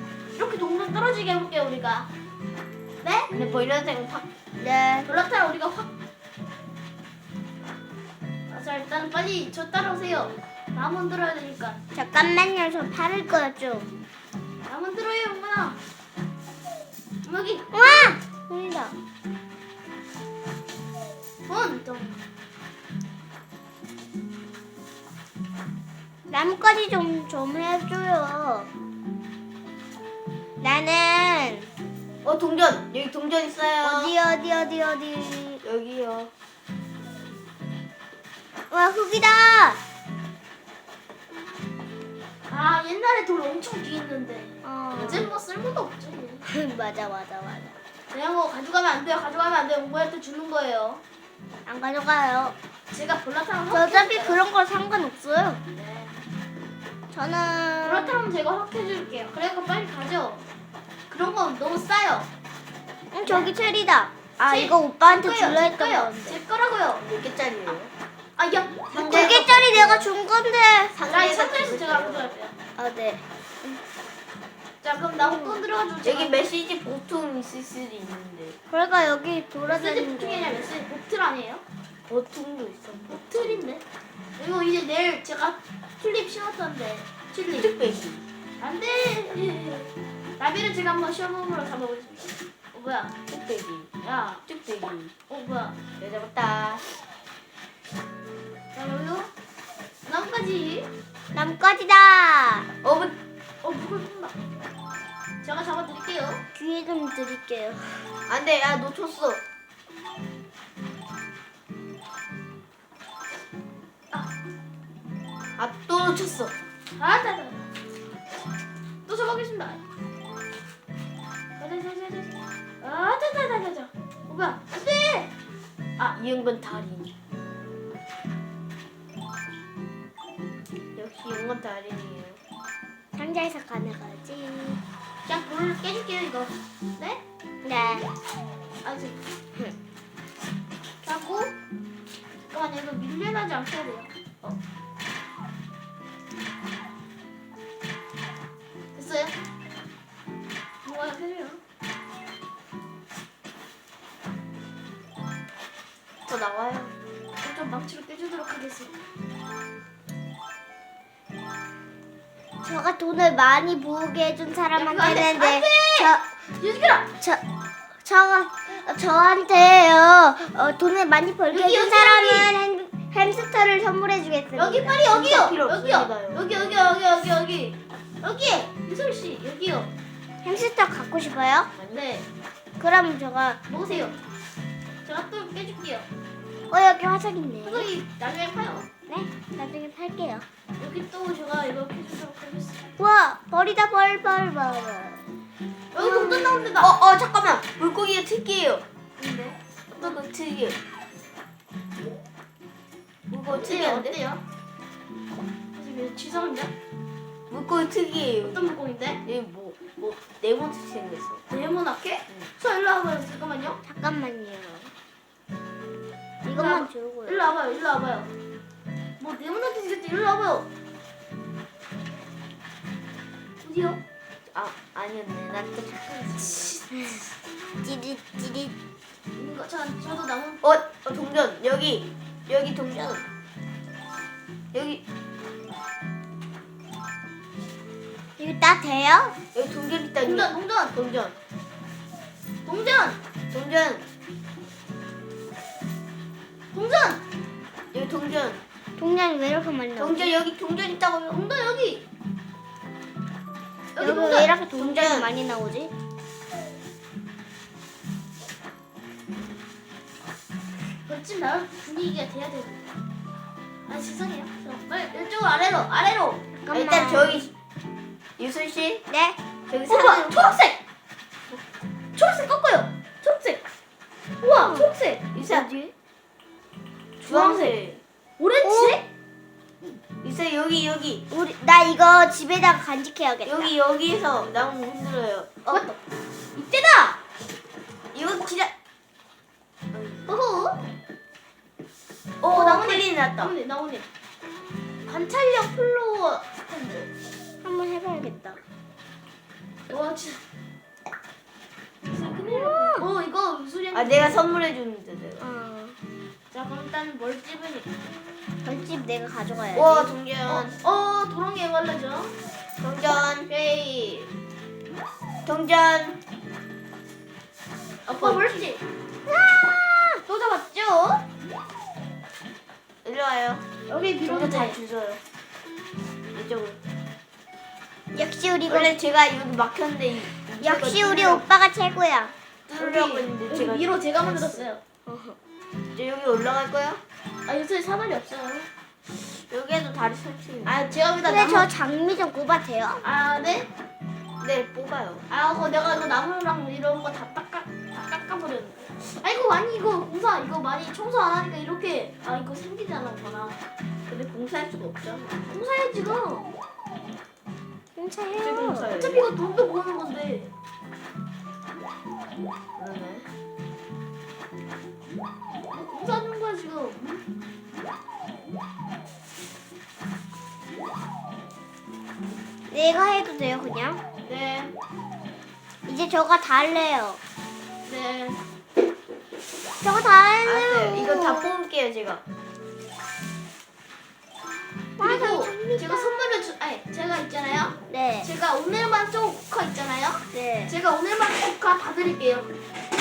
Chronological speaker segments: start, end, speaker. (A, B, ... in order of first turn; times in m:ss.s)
0:00.3-0:02.1 A
0:03.0-0:03.3 A
0:03.3-0:03.7 B
0:03.3-0:04.3 C
0:04.6-0:05.1 B
0:05.1-0:05.9 A
0:08.5-0:11.8 A
0:11.9-0:13.9 B
0:14.7-0:15.8 A
0:17.2-0:18.1 A
0:17.7-0:19.0 B
0:21.5-0:22.2 A
0:26.3-0:28.7 B
0:30.6-0:31.7 B
0:32.2-0:34.1 C
0:33.8-0:35.6 B
0:35.6-0:36.3 C
0:38.7-0:39.8 B
0:42.5-0:46.4 A
0:44.6-0:45.3 B
0:45.0-0:45.4 C
0:46.5-0:47.8 B
0:48.1-0:51.0 A
0:51.6-0:52.6 B
0:52.9-0:54.4 A
0:53.7-0:55.6 B
0:55.7-0:56.2 A
0:57.1-0:58.2 B
0:57.8-1:00.5 A
1:01.1-1:02.3 A
1:03.1-1:06.4 B
1:03.2-1:03.5 A
1:04.4-1:07.0 A
1:07.0-1:07.9 C
1:08.4-1:09.4 A
1:08.9-1:10.1 C
1:08.9-1:11.0 B
1:10.9-1:12.4 C
1:11.1-1:12.6 A
1:12.8-1:13.8 B
1:14.8-1:16.4 A
1:15.2-1:15.6 B
1:16.0-1:18.6 C
1:18.7-1:20.7 B
1:19.7-1:21.6 A
1:22.1-1:23.6 C
1:23.1-1:23.8 A
1:24.4-1:27.7 A
1:27.4-1:28.2 C
1:28.6-1:33.2 A
1:33.3-1:35.1 C
1:34.0-1:34.4 A
1:35.3-1:35.8 A
1:36.0-1:36.8 C
1:38.7-1:39.3 A
1:40.1-1:40.9 A
1:41.3-1:42.7 B
1:42.8-1:43.2 C
1:43.6-1:44.3 A
1:45.4-1:46.4 A
1:46.5-1:48.1 B
1:48.3-1:49.4 C
1:55.6-1:56.5 C
1:56.9-1:57.7 A
1:59.1-1:59.8 A
2:01.6-2:05.3 A
2:06.0-2:07.1 C
2:11.0-2:12.4 C
2:13.1-2:14.8 B
2:15.2-2:17.2 A
2:17.6-2:18.1 B
2:18.8-2:19.2 A
2:21.0-2:21.6 A
2:22.5-2:24.6 A
2:29.0-2:29.4 A
2:30.8-2:31.6 A
2:36.3-2:36.9 C
2:37.4-2:38.9 A
2:42.6-2:46.3 B
2:44.8-2:47.1 A
2:48.0-2:55.3 B
2:51.5-2:52.5 A
2:54.5-2:59.9 A
2:55.1-2:56.7 C
3:00.4-3:01.7 B
3:01.8-3:02.0 C
3:01.9-3:02.3 A
3:02.8-3:04.2 B
3:03.7-3:04.2 A
3:05.0-3:06.1 A
3:06.7-3:07.9 B
3:07.6-3:08.9 A
3:09.1-3:10.5 B
3:10.8-3:12.8 A
3:13.0-3:15.2 B
3:15.9-3:16.9 A
3:16.0-3:16.8 B
3:16.8-3:18.8 C
3:19.2-3:20.2 A
3:20.0-3:20.8 C
3:23.3-3:24.2 C
3:23.5-3:24.4 A
3:25.8-3:26.7 A
3:27.5-3:28.7 C
3:28.4-3:29.2 A
3:29.2-3:31.4 C
3:31.5-3:33.8 A
3:33.8-3:34.9 B
3:36.4-3:37.5 B
3:36.5-3:38.3 A
3:39.2-3:40.7 A
3:43.6-3:44.0 A
3:44.5-3:46.7 C
3:46.3-3:46.9 A
3:47.8-3:48.8 B
3:49.4-3:50.6 A
3:50.6-3:53.2 C
3:54.7-3:55.0 C
3:58.4-3:59.3 B
3:59.5-4:01.3 C
4:00.2-4:01.0 A
4:02.7-4:03.2 A
4:03.5-4:04.0 C
4:06.7-4:07.2 A
4:07.9-4:08.6 C
4:09.0-4:10.3 B
4:10.0-4:11.4 C
4:11.3-4:12.0 A
4:14.0-4:14.5 A
4:14.0-4:15.9 B
4:14.8-4:15.3 C
4:21.1-4:22.9 A
4:23.9-4:26.4 A
4:26.5-4:27.5 B
4:26.7-4:27.5 C
4:28.4-4:29.0 C
4:29.1-4:29.4 B
4:29.7-4:30.2 C
4:29.9-4:30.8 A
4:29.9-4:30.5 B
4:32.1-4:33.6 A
4:34.4-4:35.3 A
4:34.5-4:35.9 B
4:35.3-4:35.7 C
4:37.2-4:37.8 A
4:37.2-4:38.0 C
4:38.4-4:39.1 A
4:38.6-4:39.0 B
4:40.2-4:41.2 C
4:41.3-4:43.7 B
4:43.4-4:45.8 C
4:45.7-4:46.0 A
4:46.5-4:47.2 A
4:48.1-4:48.7 C
4:49.9-4:50.2 C
4:50.2-4:50.8 A
4:52.4-4:54.1 A
4:52.5-4:53.5 C
4:55.1-4:57.1 A
4:57.6-4:58.6 B
4:59.9-5:00.4 A
5:02.1-5:04.4 A
5:02.5-5:03.1 B
5:03.9-5:05.4 C
5:05.4-5:06.0 B
5:06.5-5:08.0 A
5:08.6-5:10.1 B
5:09.7-5:10.7 C
5:10.4-5:12.3 A
5:12.8-5:13.5 C
5:13.5-5:14.3 A
5:15.4-5:16.2 C
5:18.1-5:18.8 A
5:18.1-5:18.5 C
5:19.2-5:20.2 B
5:20.2-5:21.2 A
5:23.0-5:23.6 C
5:23.9-5:24.8 A
5:24.2-5:25.2 C
5:26.3-5:26.8 C
5:28.1-5:29.0 B
5:28.7-5:31.4 C
5:30.6-5:32.3 B
5:32.7-5:34.8 A
5:32.7-5:34.7 C
5:35.1-5:35.4 B
5:36.0-5:37.0 C
5:37.5-5:38.7 A
5:39.3-5:40.8 C
5:40.6-5:41.7 A
5:41.2-5:43.1 B
5:43.0-5:43.7 A
5:44.4-5:45.2 C
5:45.3-5:53.6 A
5:54.1-5:55.6 C
5:55.5-5:56.5 A
5:58.0-5:58.9 B
5:58.4-5:59.3 C
5:58.9-6:00.5 A
6:02.8-6:03.3 C
6:05.7-6:07.2 A
6:12.7-6:14.0 B
6:14.2-6:14.8 A
6:15.9-6:17.2 B
6:17.9-6:18.4 A
6:19.8-6:21.5 B
6:20.4-6:22.2 C
6:25.0-6:26.1 B
6:25.0-6:32.5 A
6:27.9-6:28.3 B
6:30.3-6:30.8 B